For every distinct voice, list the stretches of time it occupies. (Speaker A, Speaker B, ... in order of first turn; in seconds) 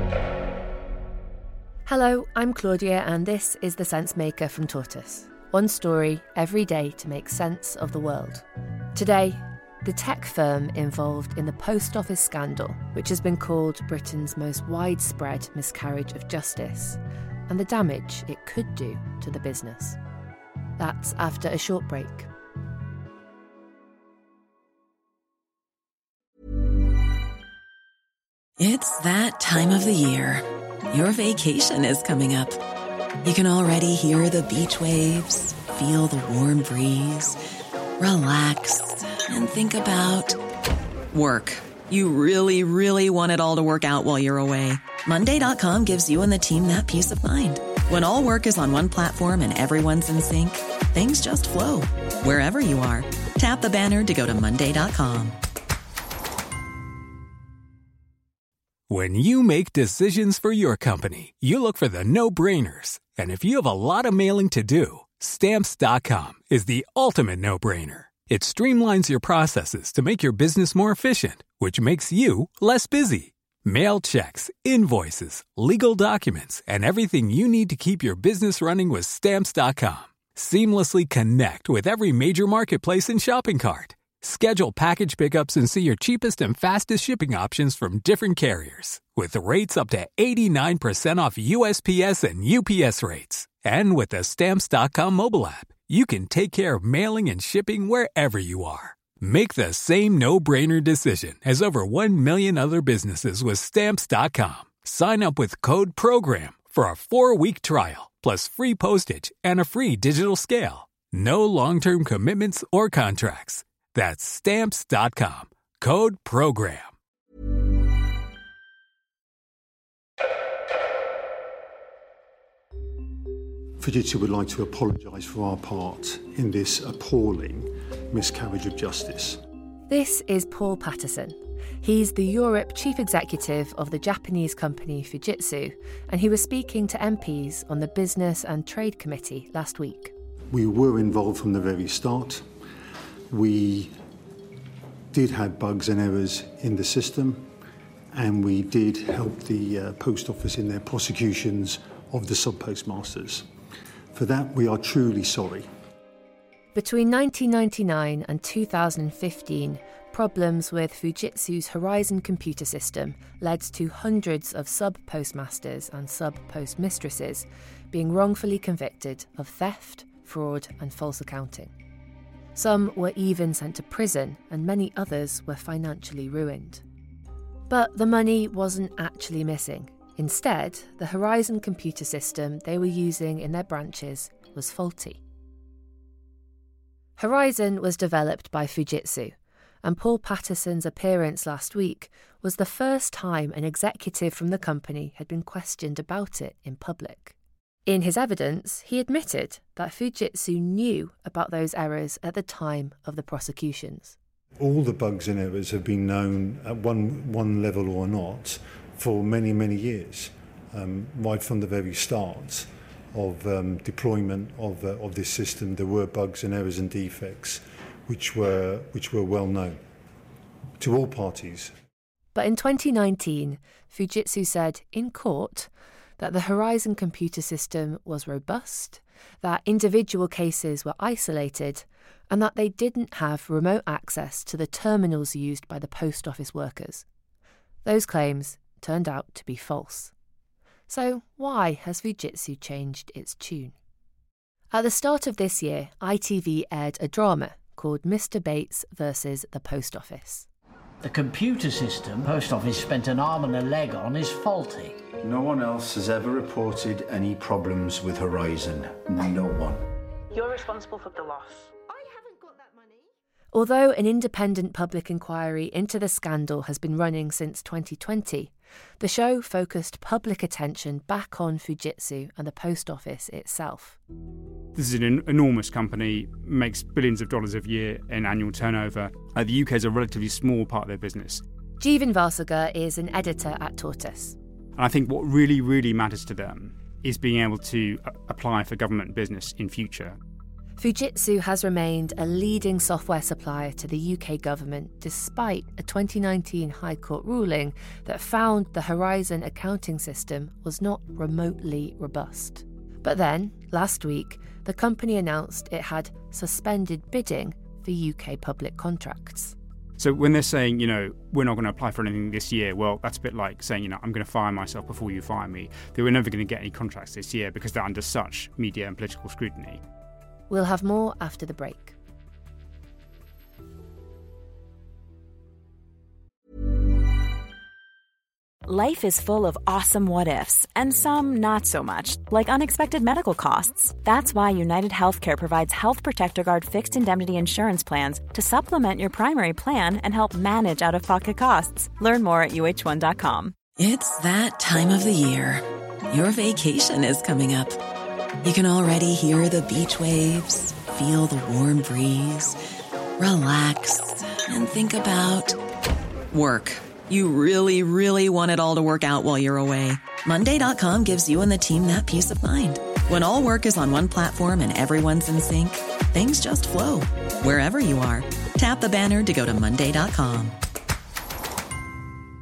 Speaker A: 1.9-20.0, 20.8-22.3, 129.9-140.1, 156.7-171.7, 172.6-176.8, 177.7-185.2, 187.2-204.2, 222.3-237.0, 237.8-240.1, 240.9-243.7, 244.7-250.5, 263.5-274.0, 281.8-284.4, 290.8-309.6, 320.5-321.9
Speaker B: 28.6-32.6, 33.2-37.4, 38.0-40.4, 41.1-55.3, 343.8-347.8, 348.4-352.6, 353.2-355.5, 356.3-370.5
Speaker C: 58.9-116.9
Speaker D: 123.8-129.4, 140.5-142.4, 143.3-143.9, 145.1-147.5, 148.1-153.4, 154.1-155.7, 204.6-219.8, 220.8-221.7
Speaker E: 251.0-255.1
Speaker F: 255.2-259.8
Speaker G: 260.3-263.0
Speaker H: 274.8-281.4, 284.8-290.2, 310.0-319.8
Speaker I: 328.6-343.6